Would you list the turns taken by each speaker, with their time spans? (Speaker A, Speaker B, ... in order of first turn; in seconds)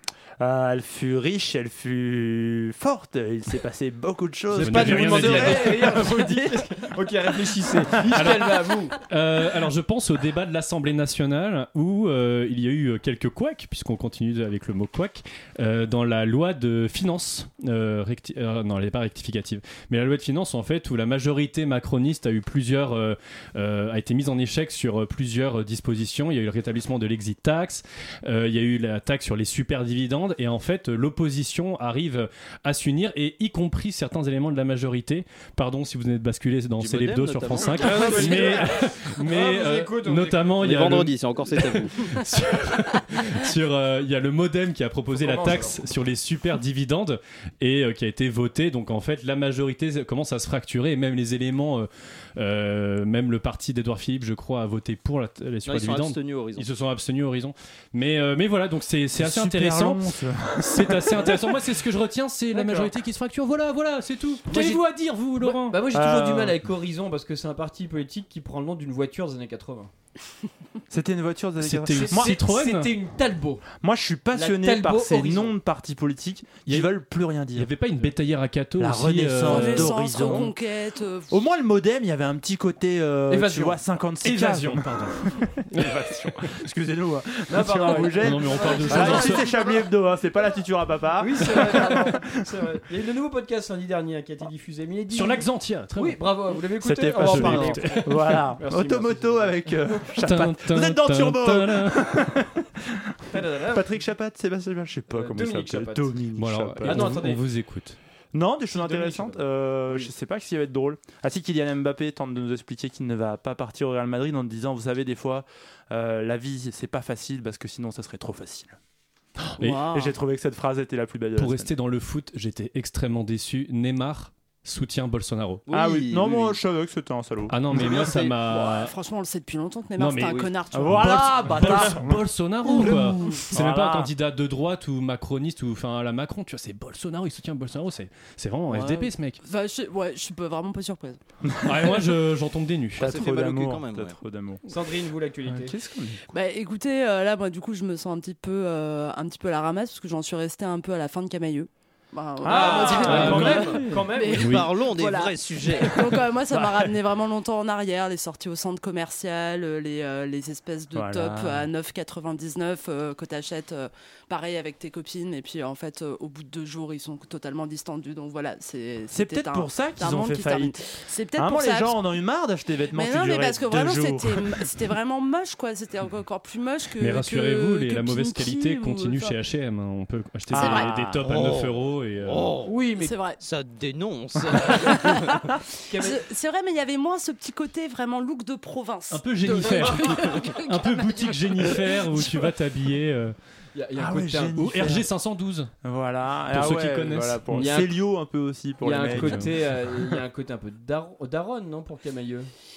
Speaker A: 0.4-6.7, 59.2-61.4, 65.9-66.6, 70.9-72.4, 73.8-77.7, 78.8-80.5, 81.3-92.2, 96.8-103.1, 103.7-107.3, 108.3-118.8, 119.8-121.7, 125.7-127.6, 130.7-134.1, 141.4-141.9, 143.0-144.6, 145.5-146.2, 152.4-153.7, 156.5-156.9, 160.9-161.7, 169.1-170.8, 171.3-174.8, 180.5-181.2, 194.0-195.1, 195.8-199.5
Speaker B: 4.5-8.9, 37.8-40.6, 45.1-45.8, 62.5-62.9, 64.5-64.8, 65.4-69.9, 71.9-73.6, 74.3-75.5, 83.3-83.8, 87.5-89.5, 91.2-99.7, 103.3-104.0, 105.1-106.1, 106.8-107.4, 108.7-110.1, 144.7-145.7, 152.4-154.5, 182.7-183.1, 185.9-186.2, 193.7-194.6, 197.5-197.9, 198.8-202.5
Speaker C: 4.5-5.9, 8.1-65.8, 71.6-72.9, 77.5-80.5, 84.2-86.1, 88.2-89.5, 95.1-96.2, 97.2-98.4, 100.2-102.2, 106.4-108.0, 119.6-119.9, 121.3-125.6, 127.5-128.9, 130.0-139.4, 141.6-143.1, 152.9-154.7, 177.0-182.5, 189.1-193.3, 194.6-195.7, 196.5-197.7, 199.1-199.5
Speaker D: 36.8-38.6, 40.6-42.1, 55.6-56.7, 125.7-126.6, 127.7-128.4, 143.0-144.2, 154.4-155.9, 181.2-182.7, 183.4-185.2
Speaker E: 79.4-81.4, 88.7-89.5, 119.6-120.1, 128.5-131.8, 132.6-133.4, 138.7-141.2, 146.3-172.0, 172.9-179.3, 180.5-180.9, 182.9-183.4, 185.9-192.2